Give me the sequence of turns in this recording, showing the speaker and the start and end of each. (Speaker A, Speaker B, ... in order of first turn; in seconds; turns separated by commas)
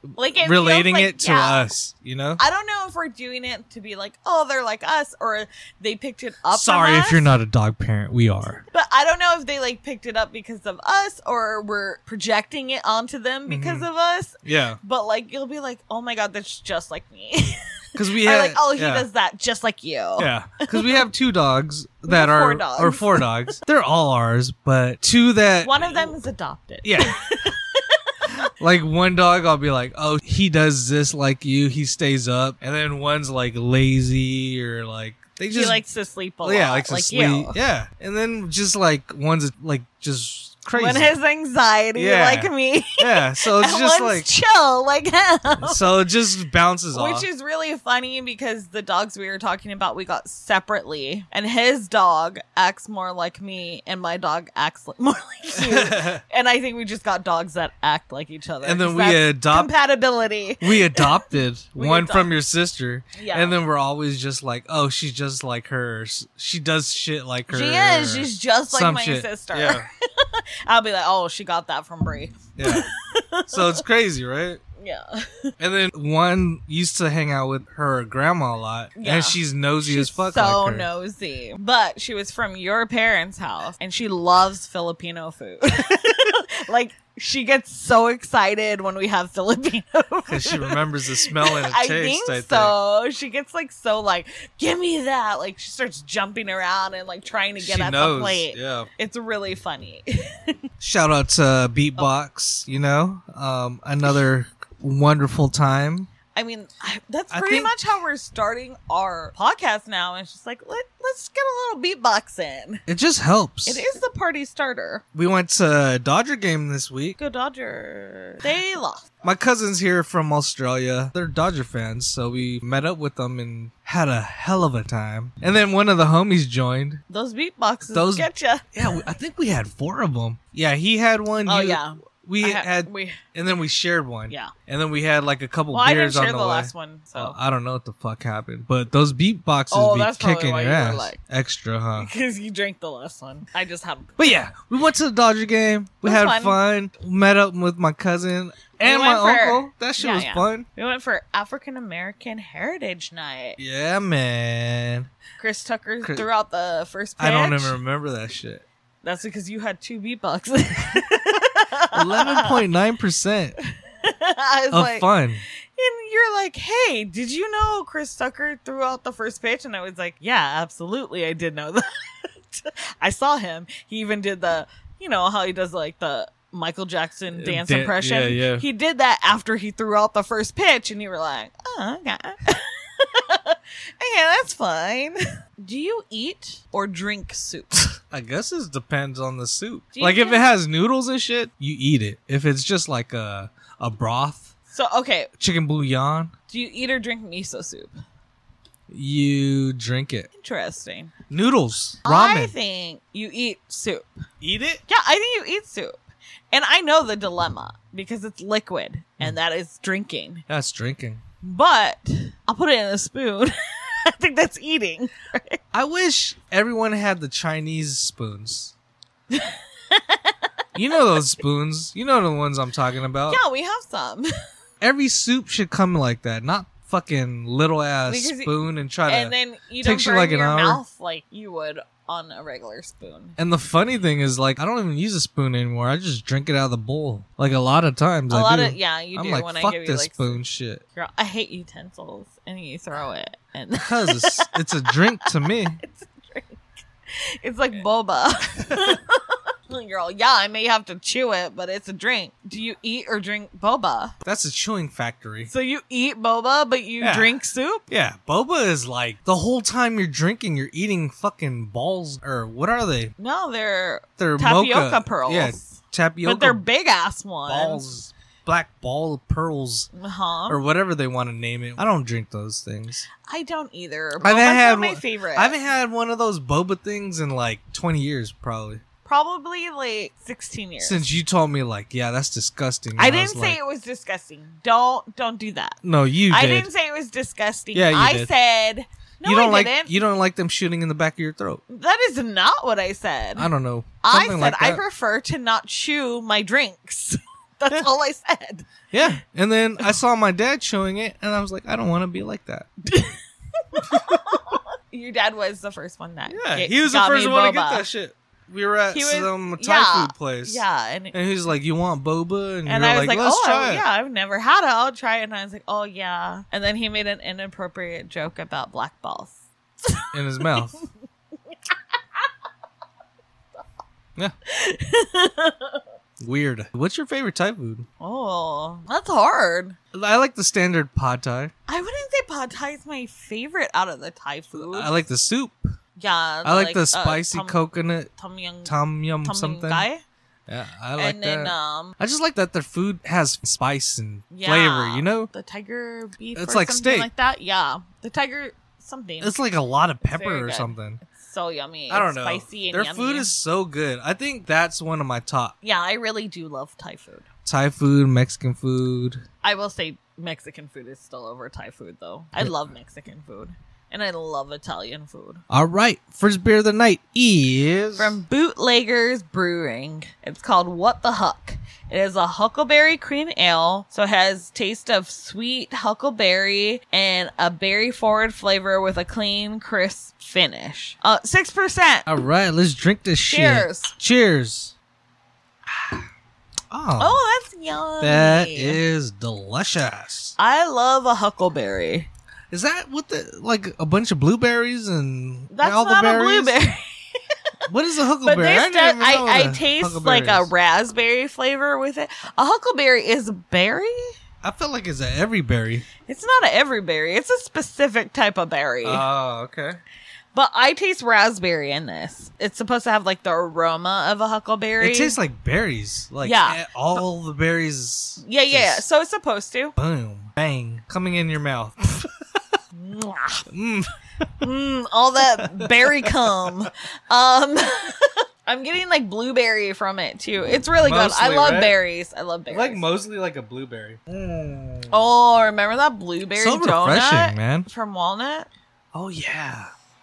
Speaker A: 0.2-1.7, Speaker B: 0.4-2.4, Speaker A: 2.4-7.3, Speaker B: 6.5-8.6, Speaker A: 8.7-21.1, Speaker B: 13.5-13.9, Speaker B: 14.4-14.8, Speaker B: 18.0-19.1, Speaker B: 20.2-26.1, Speaker A: 22.1-23.5, Speaker A: 25.6-28.3, Speaker B: 26.8-27.2, Speaker B: 28.6-35.8, Speaker A: 35.5-37.6, Speaker B: 36.4-41.1, Speaker A: 40.7-46.1, Speaker B: 42.0-44.3, Speaker B: 45.6-47.3, Speaker A: 46.9-61.2, Speaker B: 55.5-56.2, Speaker B: 58.6-59.7, Speaker B: 60.6-69.9, Speaker A: 61.8-62.3, Speaker A: 63.1-63.6, Speaker A: 67.5-73.8, Speaker B: 72.6-72.9, Speaker B: 73.5-74.6, Speaker A: 74.8-75.5, Speaker B: 75.6-80.9, Speaker A: 79.0-100.5, Speaker B: 90.3-92.7, Speaker B: 97.6-98.9, Speaker B: 100.8-106.1, Speaker A: 106.3-112.8, Speaker B: 107.3-107.8, Speaker B: 112.9-113.8, Speaker A: 113.7-115.0, Speaker B: 115.1-117.2, Speaker A: 117.2-119.0, Speaker B: 119.2-127.0, Speaker A: 127.1-129.0, Speaker B: 127.9-142.1, Speaker A: 131.5-133.2, Speaker A: 135.7-137.4, Speaker A: 139.7-141.2, Speaker A: 142.0-144.2, Speaker B: 144.2-150.7, Speaker A: 146.0-146.6, Speaker A: 148.8-153.6, Speaker B: 153.6-155.1, Speaker A: 155.4-157.8, Speaker B: 157.2-158.7, Speaker A: 159.0-162.6, Speaker B: 161.9-163.6, Speaker A: 164.0-165.1, Speaker B: 164.7-165.4, Speaker A: 165.8-187.9, Speaker B: 177.3-178.7, Speaker B: 188.1-194.5, Speaker A: 189.9-190.5, Speaker A: 194.7-195.3, Speaker B: 195.4-196.3, Speaker A: 196.5-198.0, Speaker B: 198.9-200.3, Speaker A: 200.4-201.1, Speaker B: 201.3-202.6, Speaker A: 202.1-204.1, Speaker B: 204.4-204.8, Speaker A: 204.9-206.0, Speaker A: 206.5-210.4, Speaker B: 210.5-211.2, Speaker A: 211.4-215.6, Speaker B: 215.7-218.7, Speaker A: 219.3-220.5, Speaker B: 220.8-223.4, Speaker A: 223.3-224.3, Speaker B: 224.8-230.8, Speaker A: 228.1-233.4, Speaker B: 233.4-240.8, Speaker A: 238.3-240.4, Speaker A: 240.9-246.6, Speaker B: 243.8-245.8, Speaker A: 247.2-254.2, Speaker B: 248.7-249.0, Speaker B: 254.2-255.5, Speaker A: 255.5-257.8, Speaker B: 257.0-257.4, Speaker B: 257.9-263.1, Speaker A: 263.2-267.8, Speaker B: 264.2-266.6, Speaker B: 267.5-269.9, Speaker A: 269.9-270.6, Speaker B: 270.5-273.1, Speaker A: 273.3-275.6, Speaker B: 274.2-278.8, Speaker A: 279.1-281.1, Speaker B: 280.8-283.6, Speaker A: 283.0-289.9, Speaker B: 285.8-286.7, Speaker B: 287.7-288.3, Speaker B: 289.2-291.6, Speaker A: 291.7-293.5, Speaker B: 293.4-294.8, Speaker A: 294.0-298.7, Speaker B: 298.9-302.7, Speaker A: 302.9-307.9, Speaker B: 303.9-304.2, Speaker B: 306.3-313.9, Speaker A: 308.9-311.2, Speaker A: 312.7-320.8, Speaker B: 320.1-320.8, Speaker A: 324.5-325.8, Speaker B: 326.2-327.9, Speaker A: 328.0-329.8, Speaker B: 329.9-331.5, Speaker A: 331.7-334.9, Speaker B: 334.5-335.7, Speaker A: 336.0-337.6, Speaker B: 336.4-338.1, Speaker A: 338.2-340.0, Speaker B: 338.6-339.9, Speaker B: 340.5-345.3, Speaker A: 341.0-342.0, Speaker A: 344.3-349.4, Speaker B: 346.4-347.1, Speaker B: 349.2-351.0, Speaker A: 350.1-353.3, Speaker B: 351.9-355.6, Speaker A: 355.6-357.3, Speaker B: 357.4-359.2, Speaker A: 359.4-365.4, Speaker B: 365.5-368.2, Speaker A: 368.0-382.1, Speaker B: 382.1-384.7, Speaker A: 383.2-383.9, Speaker B: 385.7-386.1, Speaker B: 386.7-387.2, Speaker A: 387.0-388.8, Speaker B: 388.0-390.4, Speaker A: 390.4-392.1, Speaker B: 392.5-396.6, Speaker A: 395.5-396.9, Speaker B: 397.7-400.5, Speaker A: 398.2-404.1, Speaker B: 404.4-405.9, Speaker A: 406.1-409.1, Speaker B: 408.8-409.8, Speaker A: 410.3-415.2, Speaker B: 414.8-418.9, Speaker A: 416.2-416.6, Speaker A: 418.2-419.8, Speaker B: 419.8-422.6, Speaker A: 422.7-423.5, Speaker B: 423.5-424.5, Speaker A: 424.4-432.8, Speaker B: 425.4-426.7, Speaker B: 430.8-431.8, Speaker B: 432.5-434.9, Speaker A: 434.9-438.5, Speaker B: 436.4-437.7, Speaker B: 438.9-439.7